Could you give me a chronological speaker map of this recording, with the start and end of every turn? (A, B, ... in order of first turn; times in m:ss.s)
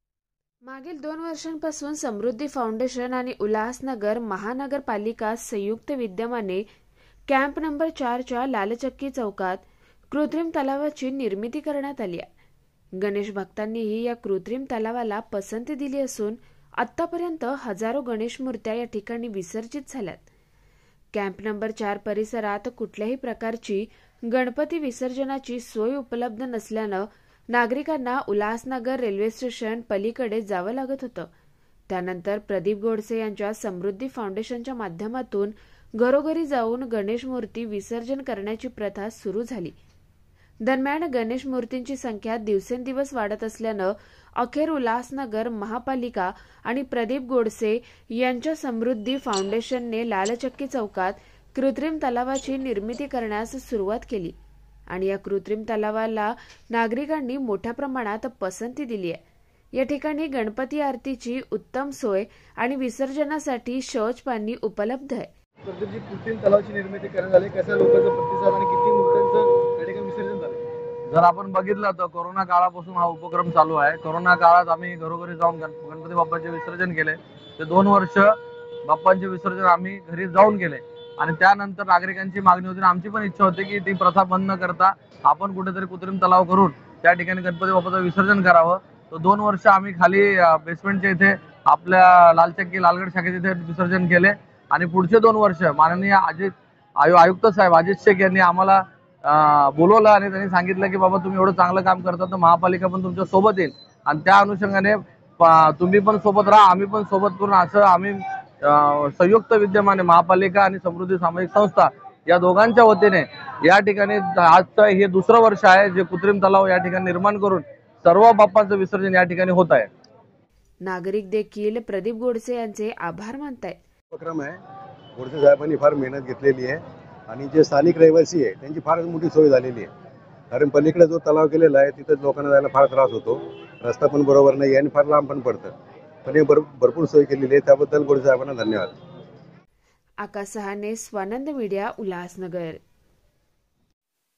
0:00.7-0:06.6 A
0:07.3-0:12.3 A
0:13.0-0:20.2 A
0:21.1-0:31.3 A
0:31.9-0:39.8 A
0:40.6-0:54.4 A
0:54.9-0:59.2 A
0:59.8-1:05.3 A
1:05.7-1:10.6 B
1:11.1-1:18.3 C
1:18.9-1:59.9 C
2:00.8-2:03.8 A
2:04.1-2:04.6 D
2:05.2-2:09.9 D
2:10.5-2:15.7 D
2:16.2-2:18.9 D
2:20.2-2:22.8 A